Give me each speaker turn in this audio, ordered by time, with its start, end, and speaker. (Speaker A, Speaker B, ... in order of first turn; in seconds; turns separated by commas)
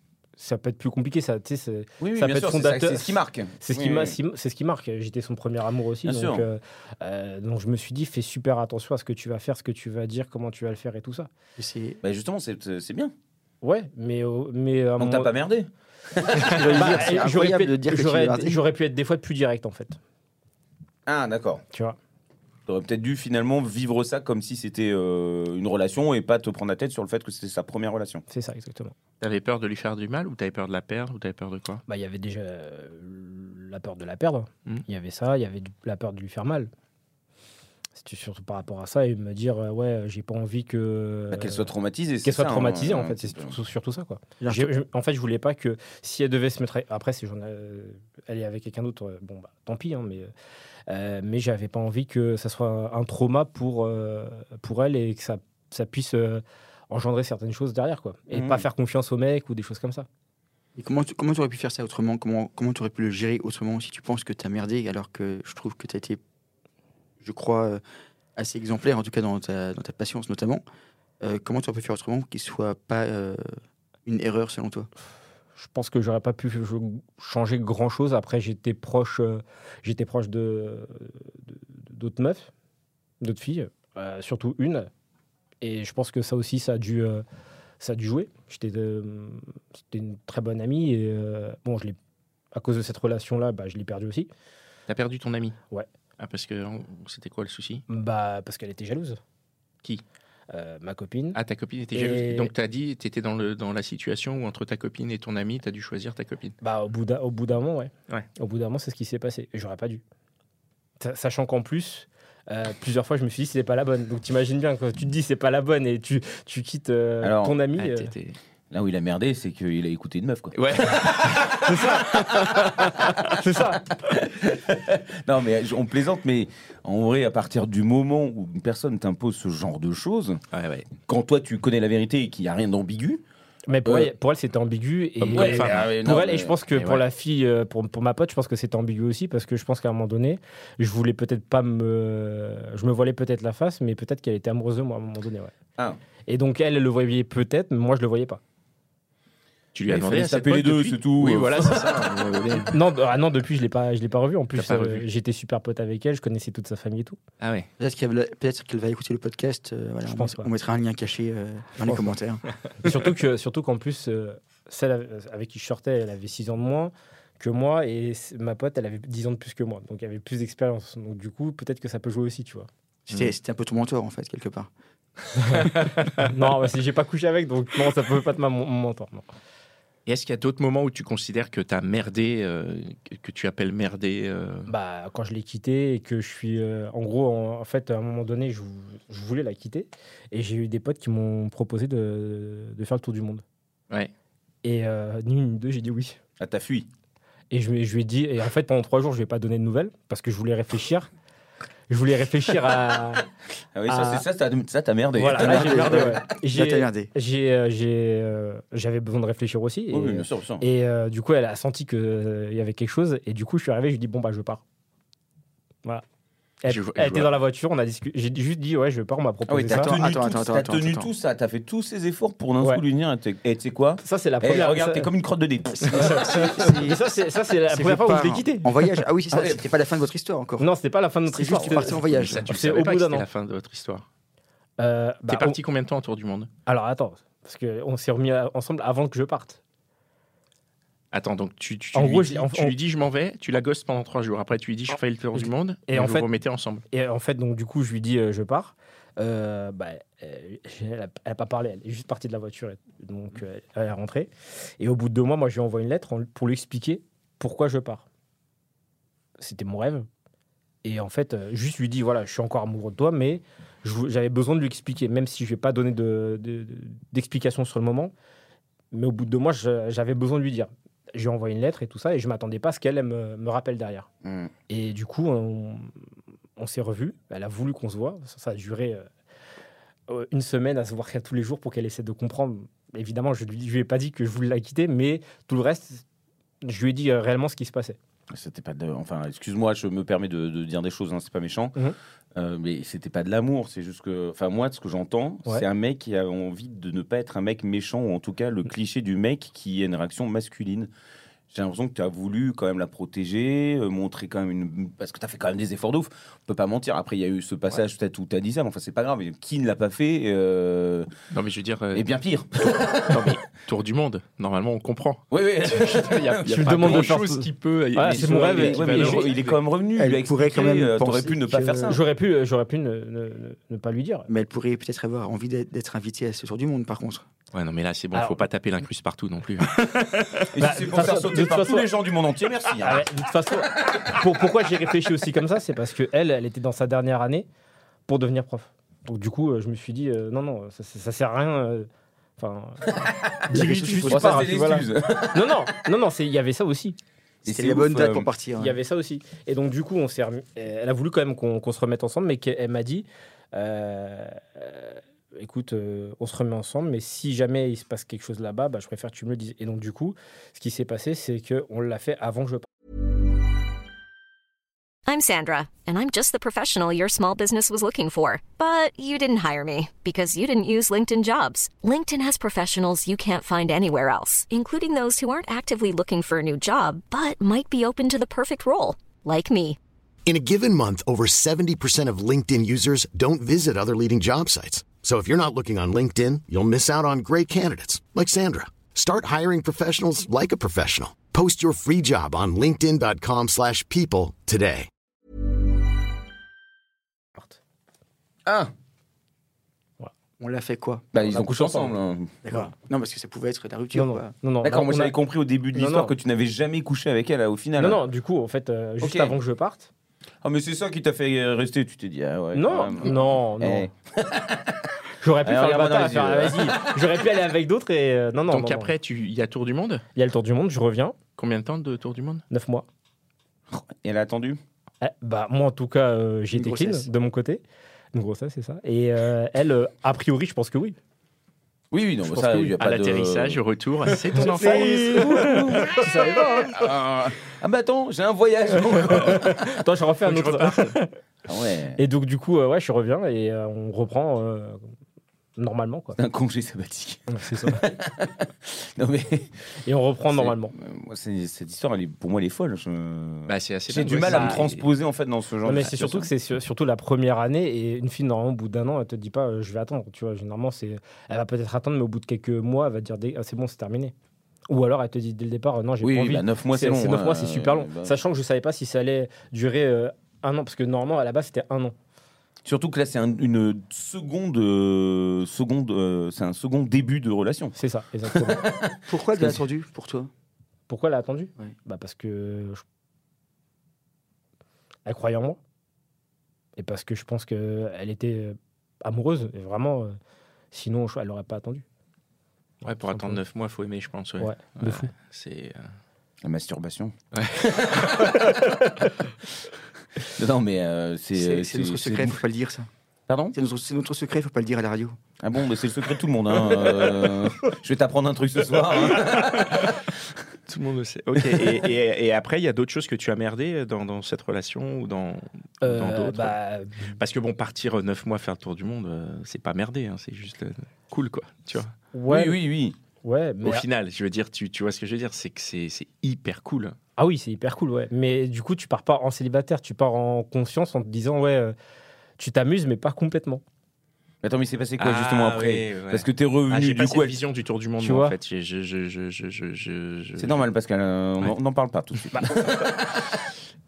Speaker A: 0.4-11.3, Speaker B: 2.0-4.2, Speaker B: 6.0-6.5, Speaker C: 11.6-12.0, Speaker B: 12.0-13.1, Speaker A: 13.6-15.3, Speaker B: 15.0-16.9, Speaker C: 16.4-18.6, Speaker A: 16.7-20.0, Speaker B: 21.1-21.6, Speaker A: 21.7-22.0, Speaker B: 22.7-28.2, Speaker A: 28.3-28.9, Speaker D: 29.2-31.8, Speaker A: 31.9-36.7, Speaker A: 38.0-41.7, Speaker B: 41.3-43.5, Speaker A: 42.2-50.3, Speaker C: 44.4-44.7, Speaker A: 50.9-60.1, Speaker B: 58.3-58.6, Speaker C: 60.8-66.2, Speaker C: 67.2-67.8, Speaker C: 68.4-70.6, Speaker C: 71.2-73.5, Speaker C: 74.1-74.9, Speaker A: 75.6-82.5, Speaker A: 83.2-84.9, Speaker A: 85.6-87.2, Speaker A: 87.8-92.0, Speaker A: 92.5-94.3, Speaker D: 94.9-95.6, Speaker D: 96.2-97.8, Speaker A: 97.9-99.2, Speaker A: 100.5-101.4, Speaker D: 101.3-106.6, Speaker A: 101.9-102.5, Speaker A: 106.6-110.0, Speaker A: 111.0-118.1, Speaker B: 117.2-117.6, Speaker D: 117.8-118.4, Speaker B: 118.7-122.7, Speaker D: 120.5-123.2, Speaker A: 121.6-123.9, Speaker B: 124.0-130.4, Speaker D: 130.5-130.9, Speaker B: 131.1-133.2, Speaker A: 133.7-145.5, Speaker B: 133.8-134.1, Speaker D: 135.2-135.9, Speaker B: 135.3-136.6, Speaker D: 136.8-137.0, Speaker A: 146.3-148.4, Speaker D: 149.8-152.7, Speaker B: 149.9-152.3, Speaker A: 152.7-157.2, Speaker D: 154.6-155.1, Speaker D: 157.4-157.7, Speaker C: 157.8-162.4, Speaker A: 160.1-160.5, Speaker A: 161.8-162.2, Speaker A: 162.8-172.7, Speaker C: 173.1-174.7, Speaker A: 175.4-179.3, Speaker D: 175.6-176.3, Speaker D: 180.1-184.7, Speaker A: 184.7-193.4, Speaker A: 194.6-196.2, Speaker B: 196.4-196.9, Speaker A: 197.5-201.1, Speaker A: 201.9-203.3, Speaker B: 203.8-206.2, Speaker A: 203.9-204.2, Speaker A: 205.1-214.6, Speaker C: 205.3-207.1, Speaker B: 209.9-210.7, Speaker A: 216.6-219.9, Speaker D: 216.7-217.3, Speaker B: 219.5-226.6, Speaker C: 219.7-221.1, Speaker A: 224.0-225.1, Speaker A: 225.9-228.9, Speaker C: 225.9-227.0, Speaker C: 227.7-230.7, Speaker B: 229.3-229.7, Speaker A: 230.6-233.2, Speaker C: 231.3-232.5, Speaker D: 232.0-234.1, Speaker A: 234.8-235.6, Speaker D: 235.3-236.5, Speaker A: 236.7-239.6, Speaker D: 241.1-246.8, Speaker A: 241.9-242.7, Speaker A: 245.4-246.3, Speaker A: 246.9-258.1, Speaker A: 259.4-260.1, Speaker A: 260.8-268.1, Speaker A: 268.9-274.1, Speaker B: 274.2-274.5, Speaker A: 274.7-275.9, Speaker A: 276.6-279.1, Speaker A: 280.1-286.0, Speaker A: 286.6-288.0, Speaker B: 288.3-291.8, Speaker B: 292.3-300.9, Speaker B: 301.5-311.1, Speaker D: 311.3-312.1, Speaker B: 311.9-313.4, Speaker D: 313.1-319.6, Speaker B: 315.3-317.1, Speaker A: 316.5-319.3, Speaker B: 318.0-322.0, Speaker C: 320.0-322.0, Speaker A: 321.9-324.3, Speaker C: 324.3-327.2, Speaker D: 327.5-330.4, Speaker A: 328.1-328.4, Speaker A: 329.9-331.9, Speaker B: 330.5-333.1, Speaker A: 332.8-337.5, Speaker A: 338.1-347.0, Speaker B: 342.9-345.7, Speaker C: 343.5-344.5, Speaker B: 347.4-348.3, Speaker C: 347.5-348.8, Speaker A: 348.6-362.7, Speaker E: 365.1-379.8, Speaker F: 380.3-394.9, Speaker B: 398.4-398.7, Speaker C: 400.4-401.8, Speaker B: 401.1-402.4, Speaker C: 402.4-404.3, Speaker A: 403.9-405.1, Speaker B: 404.6-408.0, Speaker A: 405.7-406.1, Speaker A: 407.8-409.9, Speaker B: 409.0-409.4, Speaker B: 410.4-417.1, Speaker A: 412.5-413.9, Speaker A: 415.2-418.9, Speaker D: 418.5-420.1, Speaker A: 420.2-421.2, Speaker D: 421.4-422.4, Speaker A: 422.5-422.9, Speaker B: 423.7-424.6, Speaker A: 425.0-427.6, Speaker C: 426.5-427.1, Speaker A: 428.1-431.0, Speaker B: 431.9-433.6, Speaker A: 432.4-432.7, Speaker D: 432.8-435.8, Speaker B: 434.3-439.6, Speaker A: 434.3-436.9, Speaker A: 438.9-441.1, Speaker D: 440.2-441.0, Speaker B: 441.5-442.0, Speaker A: 442.0-444.8, Speaker A: 445.6-446.2, Speaker B: 446.2-449.6, Speaker A: 447.3-447.9, Speaker A: 449.9-450.7, Speaker B: 450.3-456.3, Speaker D: 453.5-454.9, Speaker A: 454.3-454.6, Speaker A: 455.6-464.1, Speaker A: 464.7-471.9, Speaker B: 466.0-468.2, Speaker B: 472.6-477.8, Speaker A: 477.8-478.7, Speaker B: 478.3-479.6, Speaker C: 479.1-480.3, Speaker A: 480.9-482.8, Speaker A: 485.1-485.6, Speaker A: 486.8-490.2, Speaker A: 490.7-491.9, Speaker D: 492.8-495.9, Speaker A: 493.1-493.4, Speaker A: 494.4-495.1, Speaker B: 496.4-498.3, Speaker D: 497.3-498.4, Speaker B: 500.3-502.4, Speaker C: 501.4-502.9, Speaker B: 503.3-503.6, Speaker C: 503.5-505.2, Speaker B: 505.4-510.0, Speaker D: 509.1-510.1, Speaker D: 510.7-516.6, Speaker A: 515.8-517.1, Speaker D: 517.2-521.9, Speaker A: 522.1-522.6, Speaker B: 522.3-523.0, Speaker A: 523.2-523.9, Speaker D: 523.6-527.0, Speaker A: 527.2-531.8, Speaker A: 532.4-533.6, Speaker B: 534.4-537.4, Speaker D: 535.0-540.6, Speaker A: 538.0-538.4, Speaker B: 540.4-543.4